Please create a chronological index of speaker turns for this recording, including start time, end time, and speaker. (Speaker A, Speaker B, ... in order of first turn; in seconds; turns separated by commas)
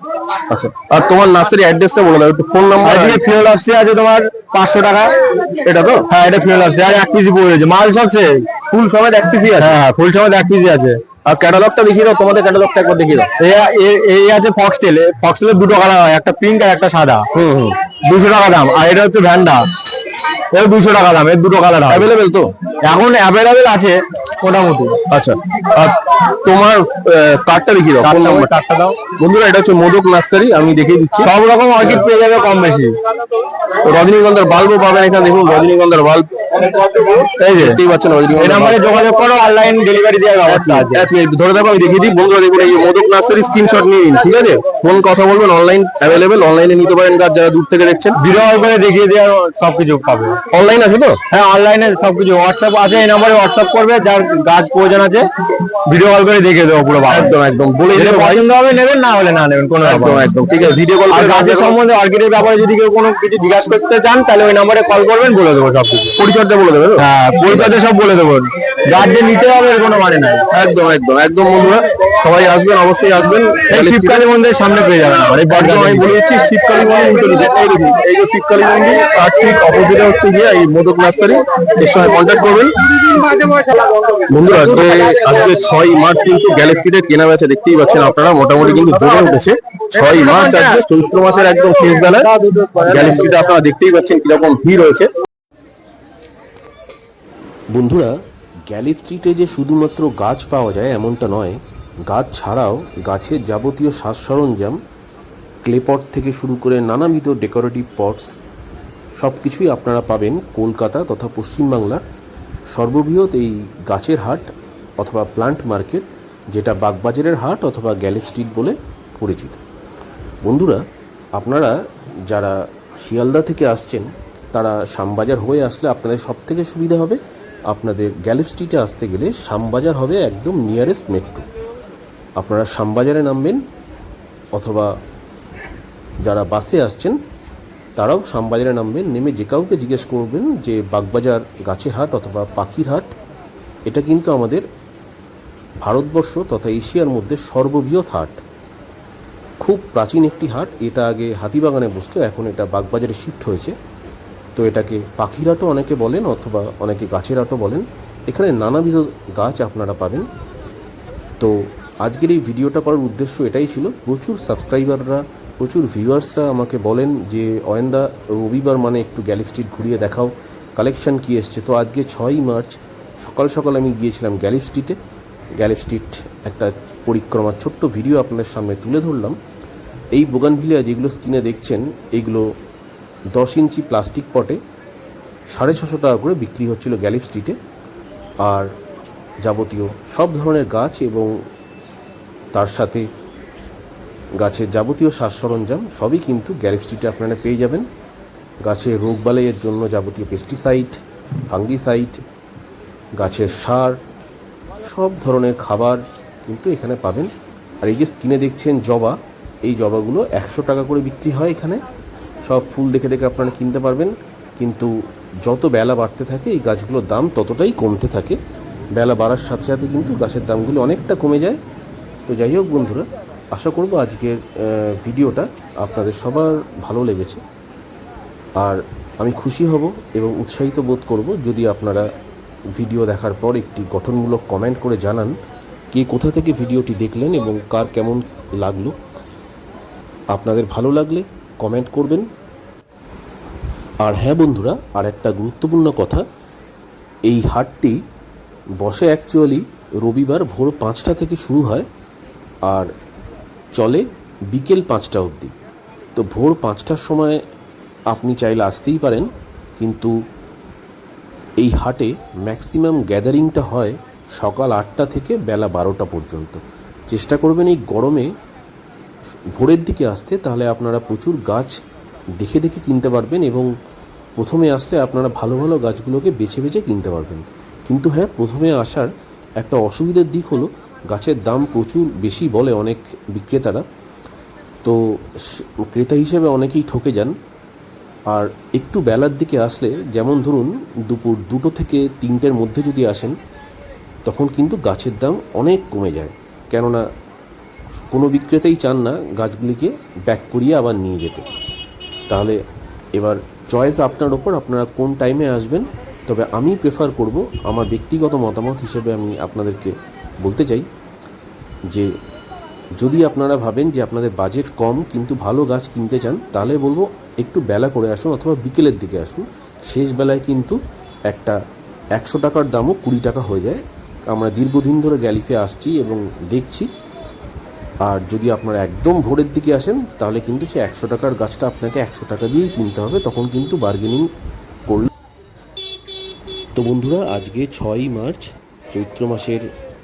Speaker A: 0.5-3.3, Speaker B: 2.8-5.2, Speaker A: 5.6-6.0, Speaker B: 6.1-8.6, Speaker A: 8.7-9.8, Speaker B: 9.6-11.0, Speaker A: 11.2-13.3, Speaker B: 13.4-17.3, Speaker A: 17.3-17.8, Speaker B: 17.9-19.7, Speaker B: 20.5-22.1, Speaker A: 21.9-22.5, Speaker B: 22.8-25.0, Speaker A: 25.1-28.5, Speaker B: 28.0-29.0, Speaker A: 29.1-32.0, Speaker B: 31.2-33.0, Speaker A: 33.8-38.8, Speaker B: 37.2-37.8, Speaker B: 38.3-41.1, Speaker A: 40.5-48.2, Speaker B: 48.2-50.4, Speaker A: 50.5-51.2, Speaker B: 51.3-55.3, Speaker B: 55.9-57.4, Speaker A: 57.1-58.4, Speaker B: 57.9-60.3, Speaker A: 59.8-61.8, Speaker B: 61.1-66.1, Speaker A: 66.2-67.7, Speaker B: 67.0-70.4, Speaker A: 70.5-74.3, Speaker B: 73.7-76.2, Speaker A: 75.3-82.7, Speaker A: 84.3-95.1, Speaker B: 92.3-92.8, Speaker C: 97.7-98.1, Speaker C: 98.7-104.8, Speaker C: 105.6-108.3, Speaker C: 109.2-112.0, Speaker C: 112.7-119.6, Speaker C: 120.4-120.8, Speaker C: 121.3-131.5, Speaker C: 132.4-133.6, Speaker C: 134.5-134.9, Speaker C: 136.2-137.2, Speaker C: 137.9-143.1, Speaker C: 143.9-144.7, Speaker C: 145.8-148.4, Speaker C: 149.6-153.7, Speaker C: 154.6-160.3, Speaker C: 161.4-175.0, Speaker C: 175.6-179.4, Speaker C: 180.1-182.5, Speaker C: 183.3-184.6, Speaker C: 185.5-187.6, Speaker C: 188.4-188.7, Speaker C: 189.4-191.3, Speaker C: 192.5-193.1, Speaker C: 194.4-197.9, Speaker C: 198.6-202.2, Speaker C: 203.2-204.0, Speaker C: 204.8-207.3, Speaker C: 207.8-211.8, Speaker C: 212.4-218.4, Speaker C: 218.9-221.6, Speaker C: 222.2-227.4, Speaker C: 228.6-232.1, Speaker C: 232.7-235.3, Speaker C: 235.9-238.9, Speaker C: 240.3-242.3, Speaker C: 244.0-246.2, Speaker C: 247.2-248.0, Speaker C: 248.8-251.9, Speaker C: 252.7-252.9, Speaker C: 253.7-255.5, Speaker C: 256.1-257.4, Speaker C: 258.1-260.1, Speaker C: 261.6-268.3, Speaker C: 269.5-271.8, Speaker C: 272.4-273.7, Speaker C: 274.4-283.8, Speaker C: 284.8-287.3, Speaker C: 288.3-293.3, Speaker C: 294.2-297.0, Speaker C: 298.1-301.5, Speaker C: 302.3-302.6, Speaker C: 303.1-310.9, Speaker C: 313.0-321.6, Speaker C: 322.1-326.9, Speaker C: 328.0-334.3, Speaker C: 336.8-339.6